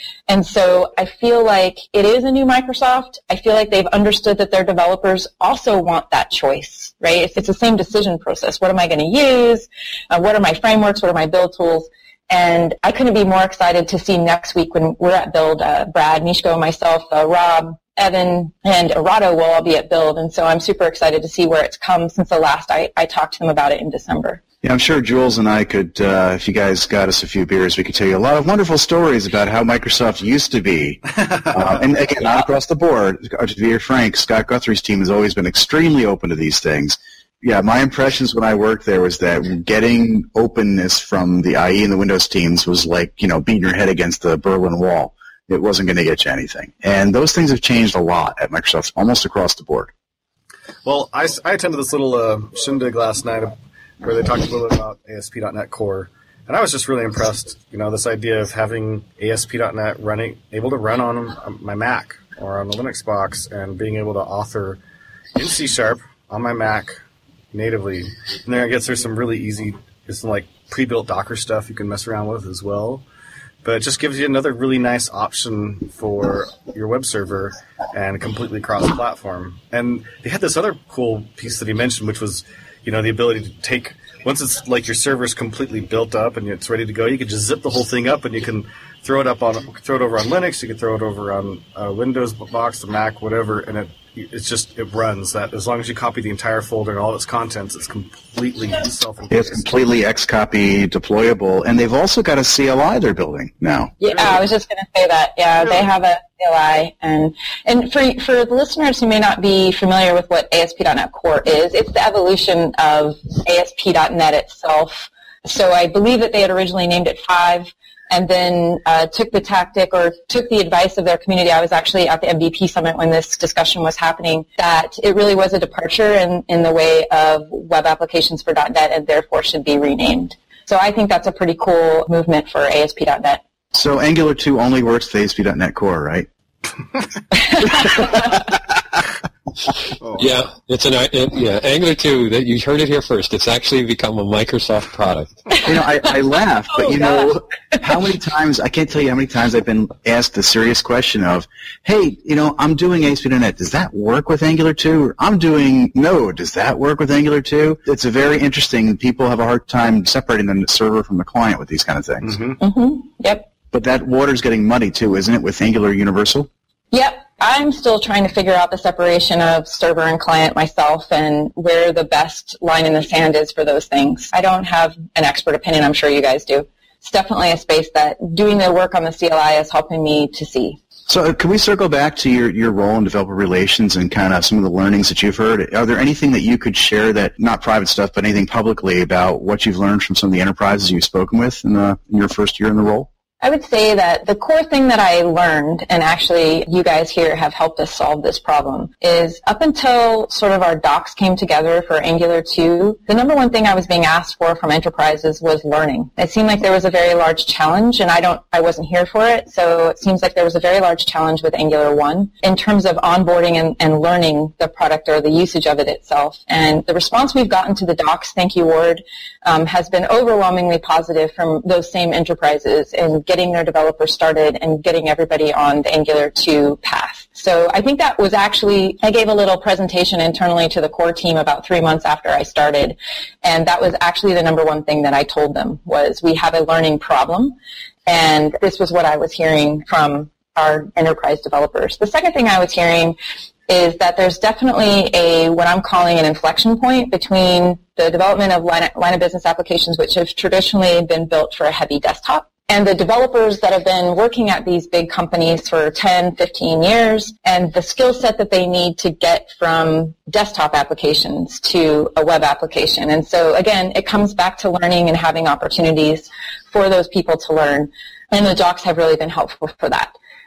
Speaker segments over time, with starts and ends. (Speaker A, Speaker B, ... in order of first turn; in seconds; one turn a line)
Speaker A: 0.3-24.4
Speaker B: 24.6-49.9
Speaker C: 31.2-31.6
Speaker C: 50.8-64.8
Speaker C: 65.3-67.0
Speaker C: 67.5-73.0
Speaker C: 73.6-99.7
Speaker B: 99.3-103.9
Speaker A: 104.0-133.4
Speaker C: 104.1-104.4
Speaker B: 133.7-136.3
Speaker C: 140.0-140.3
Speaker D: 140.2-145.4
Speaker B: 145.6-162.4
Speaker A: 146.7-147.3
Speaker C: 162.2-162.6
Speaker A: 162.6-163.5
Speaker B: 163.7-166.5
Speaker A: 166.9-180.8
Speaker B: 181.1-193.1
Speaker A: 193.4-243.2
Speaker A: 243.7-270.1